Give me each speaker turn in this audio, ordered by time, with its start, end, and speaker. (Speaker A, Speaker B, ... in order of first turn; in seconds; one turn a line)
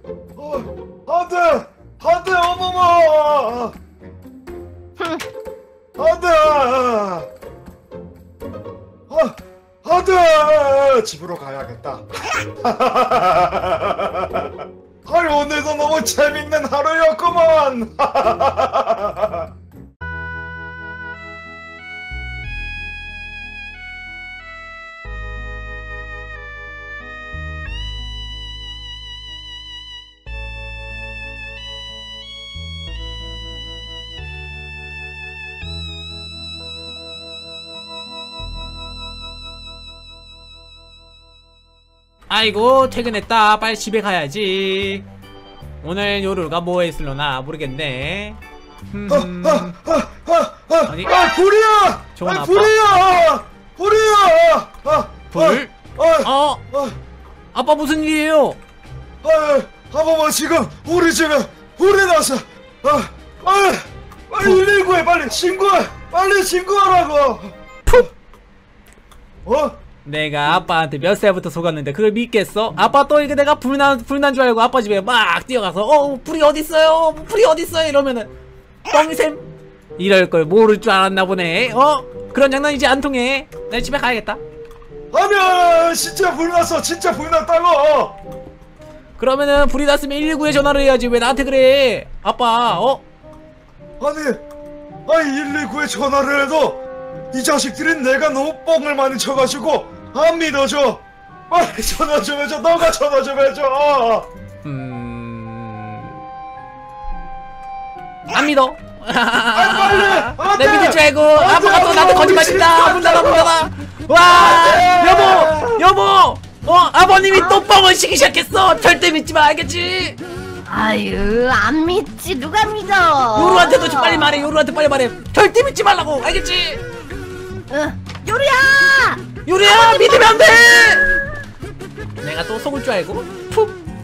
Speaker A: 0.4-3.8
Speaker B: 5.0-5.3
Speaker A: 6.0-7.3
Speaker A: 9.1-12.1
Speaker A: 12.6-19.5
Speaker C: 42.3-45.1
Speaker C: 45.8-48.4
Speaker C: 48.9-49.8
Speaker A: 49.1-57.0
Speaker C: 50.9-51.1
Speaker C: 52.2-52.7
Speaker C: 55.3-55.7
Speaker C: 56.2-56.6
Speaker C: 57.5-58.6
Speaker A: 59.2-68.1
Speaker A: 69.5-69.8
Speaker C: 70.0-78.3
Speaker C: 78.9-79.5
Speaker C: 80.0-84.4
Speaker A: 85.1-88.2
Speaker C: 89.2-93.0
Speaker A: 94.0-94.4
Speaker A: 95.1-96.8
Speaker A: 97.3-104.3
Speaker C: 104.6-106.2
Speaker C: 108.3-120.2
Speaker A: 109.5-113.5
Speaker A: 114.2-115.8
Speaker B: 117.3-117.7
Speaker B: 120.7-124.5
Speaker C: 123.3-126.8
Speaker B: 127.7-131.2
Speaker C: 129.4-131.1
Speaker C: 132.2-133.8